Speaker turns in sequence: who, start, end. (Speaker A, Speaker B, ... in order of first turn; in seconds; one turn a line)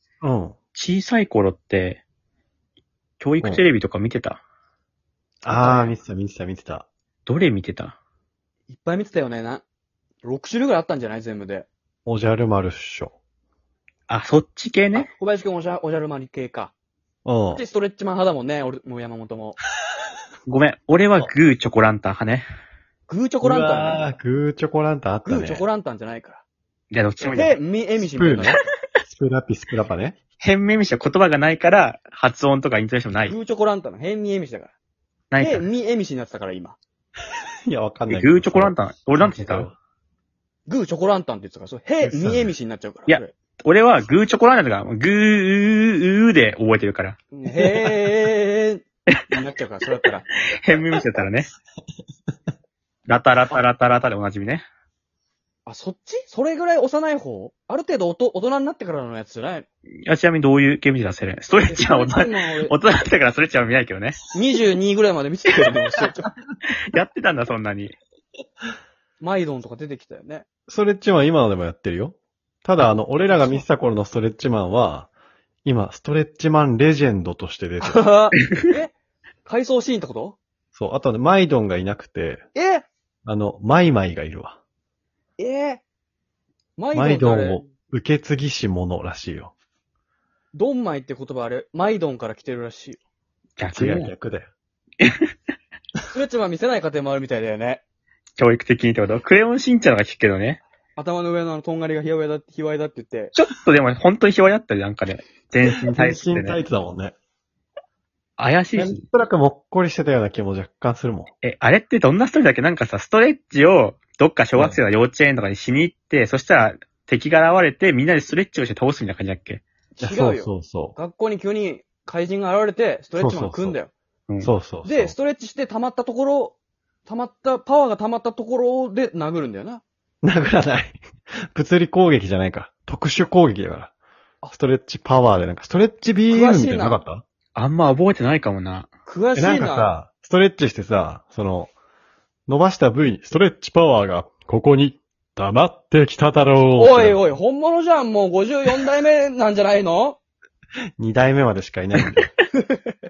Speaker A: 0.2-0.6
Speaker B: 0.7-2.0
Speaker B: 3.2-4.4
Speaker A: 5.4-6.9
Speaker C: 5.5-6.0
Speaker B: 7.2-8.0
Speaker C: 8.7-9.6
Speaker C: 10.2-11.7
Speaker A: 12.1-13.2
Speaker B: 14.1-15.1
Speaker C: 14.9-16.7
Speaker A: 17.2-17.6
Speaker C: 17.5-19.6
Speaker B: 20.4-22.4
Speaker C: 23.1-24.0
Speaker A: 23.4-25.7
Speaker C: 25.2-26.4
Speaker B: 26.9-27.6
Speaker C: 27.2-28.6
Speaker A: 28.0-30.2
Speaker B: 30.4-33.4
Speaker C: 33.2-34.7
Speaker B: 35.3-35.7
Speaker C: 35.4-36.8
Speaker A: 37.7-39.8
Speaker B: 38.1-39.7
Speaker C: 40.7-43.3
Speaker A: 42.0-42.5
Speaker B: 43.1-47.9
Speaker C: 47.3-50.3
Speaker B: 50.5-51.5
Speaker B: 53.1-54.6
Speaker C: 55.7-59.7
Speaker B: 60.0-64.2
Speaker C: 61.7-62.8
Speaker C: 64.3-66.3
Speaker B: 66.9-68.0
Speaker C: 69.2-70.5
Speaker A: 70.7-75.1
Speaker C: 73.2-73.6
Speaker A: 75.7-78.0
Speaker C: 77.8-78.9
Speaker C: 79.5-80.4
Speaker A: 80.8-82.5
Speaker C: 82.5-82.9
Speaker A: 83.2-84.6
Speaker C: 85.4-85.8
Speaker C: 86.8-87.7
Speaker A: 86.9-89.5
Speaker C: 90.5-93.0
Speaker B: 93.6-94.1
Speaker A: 93.7-94.5
Speaker C: 96.1-97.8
Speaker B: 98.4-100.6
Speaker C: 101.0-103.3
Speaker B: 103.3-106.6
Speaker A: 105.7-107.2
Speaker B: 108.4-109.0
Speaker A: 108.8-111.3
Speaker B: 111.4-119.6
Speaker A: 114.5-114.8
Speaker C: 120.0-123.9
Speaker A: 120.0-121.0
Speaker A: 123.2-123.8
Speaker A: 124.4-125.2
Speaker C: 124.8-129.8
Speaker A: 130.2-131.0
Speaker A: 131.5-133.9
Speaker A: 134.5-137.2
Speaker C: 136.3-137.0
Speaker B: 137.6-138.9
Speaker C: 139.1-139.9
Speaker A: 139.3-141.7
Speaker A: 142.5-147.2
Speaker C: 146.7-150.2
Speaker A: 151.0-152.3
Speaker C: 152.6-152.9